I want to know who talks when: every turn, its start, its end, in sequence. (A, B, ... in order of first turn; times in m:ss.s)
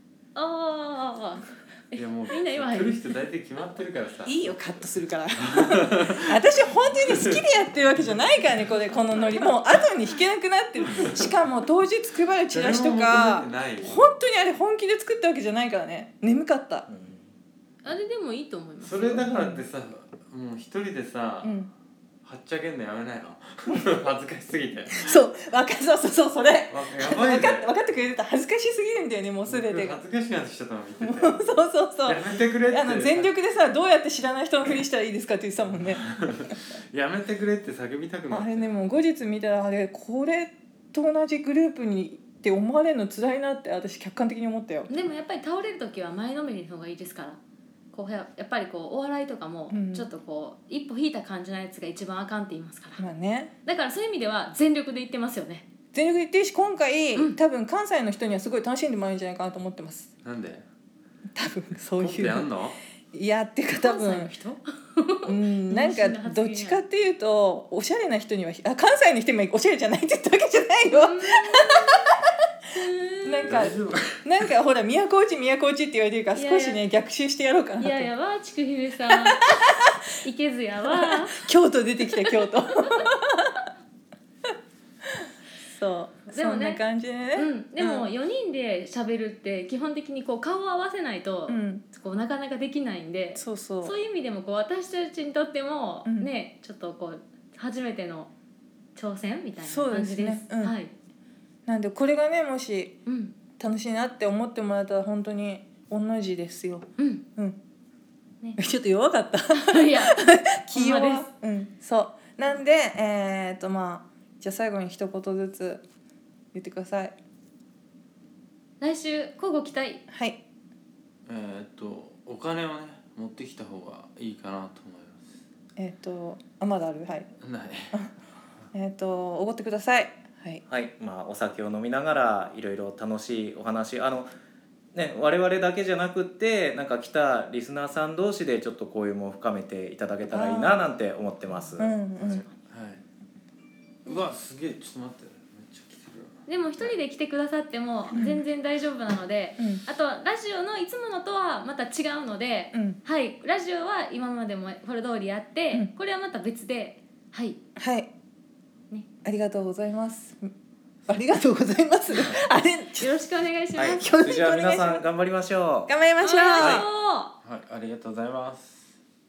0:00.3-0:03.0 A
0:01.9-0:04.6 B
0:04.2-0:16.9 C
0:05.5-0:07.4 B
0:08.9-0:09.4 A
0:10.8-0:11.3 B
0:12.5-0:14.1 B
0:16.9-0:17.2 D
0:17.8-0:19.3 A
0:18.8-0:21.6 B
0:19.3-0:19.6 C
0:21.4-0:21.7 C
0:22.2-0:25.1 B
0:25.0-0:30.0 C
0:26.7-0:27.7 B
0:29.4-0:33.3 B
0:31.0-0:36.0 C
0:35.6-0:38.8 B
0:38.3-0:44.9 C
0:44.9-0:47.4 A
0:47.9-0:53.0 A
0:49.7-0:50.1 C
0:53.0-0:53.5 C
0:53.6-0:55.6 A
0:55.9-1:00.1 C
1:00.2-1:00.6 B
1:01.3-1:02.5 C
1:02.0-1:02.8 B
1:03.1-1:04.3 C
1:03.7-1:06.8 A
1:05.2-1:12.0 C
1:10.9-1:12.0 A
1:12.7-1:13.6 A
1:13.2-1:18.1 C
1:13.5-1:14.2 B
1:16.3-1:16.8 A
1:17.8-1:19.6 A
1:20.2-1:21.4 A
1:20.8-1:23.6 C
1:25.6-1:28.1 C
1:26.3-1:26.8 A
1:27.3-1:38.3 A
1:31.5-1:31.8 C
1:33.4-1:34.0 C
1:36.0-1:36.3 C
1:39.0-1:40.9 A
1:39.6-1:40.8 C
1:41.6-1:43.0 C
1:43.0-1:43.4 A
1:43.6-1:47.6 C
1:47.0-1:47.2 A
1:48.6-1:55.8 C
1:49.5-1:50.2 A
1:50.7-1:51.3 A
1:56.5-1:57.2 C
1:58.8-2:00.0 A
2:00.1-2:00.4 C
2:01.3-2:05.4 B
2:05.8-2:07.3 C
2:07.4-2:07.9 B
2:08.7-2:10.6 C
2:10.7-2:14.3 D
2:14.9-2:22.4 D
2:20.3-2:20.8 C
2:21.8-2:22.4 C
2:22.7-2:23.0 B
2:24.0-2:27.0 B
2:26.5-2:37.6 A
2:28.1-2:28.4 C
2:29.6-2:29.8 C
2:32.7-2:33.0 C
2:37.8-2:38.1 C
2:39.2-2:40.5 C
2:41.1-2:43.2 C
2:43.0-2:44.0 A
2:43.7-2:45.9 D
2:44.0-2:45.0 C
2:45.9-2:46.8 C
2:46.2-2:47.3 A
2:46.6-2:46.8 B
2:47.4-2:48.9 B